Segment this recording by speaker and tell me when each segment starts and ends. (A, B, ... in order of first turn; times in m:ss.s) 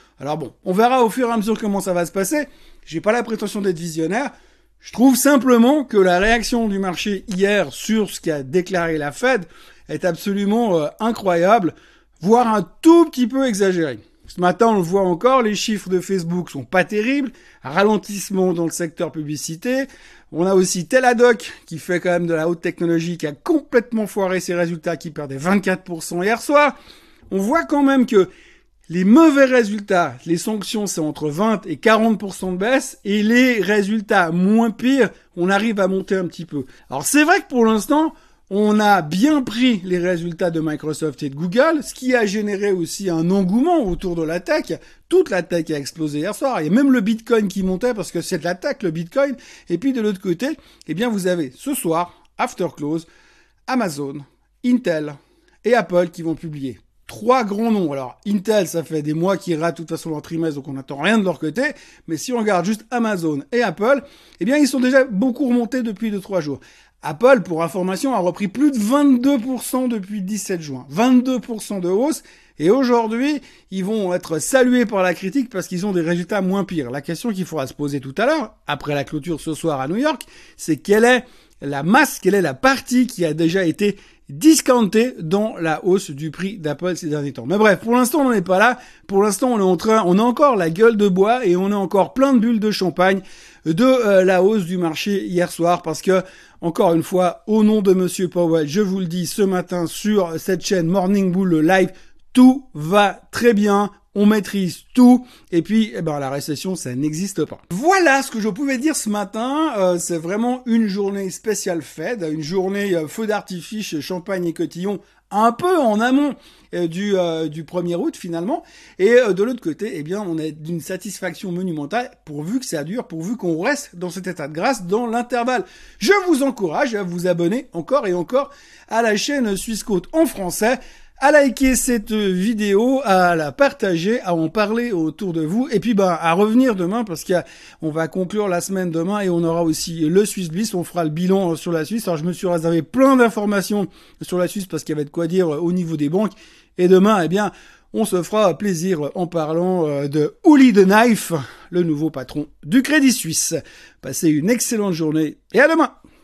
0:00.2-0:26.8 A
0:27.3-0:28.3 A
0:28.9-0:53.1 A
0:53.7-2:35.9 A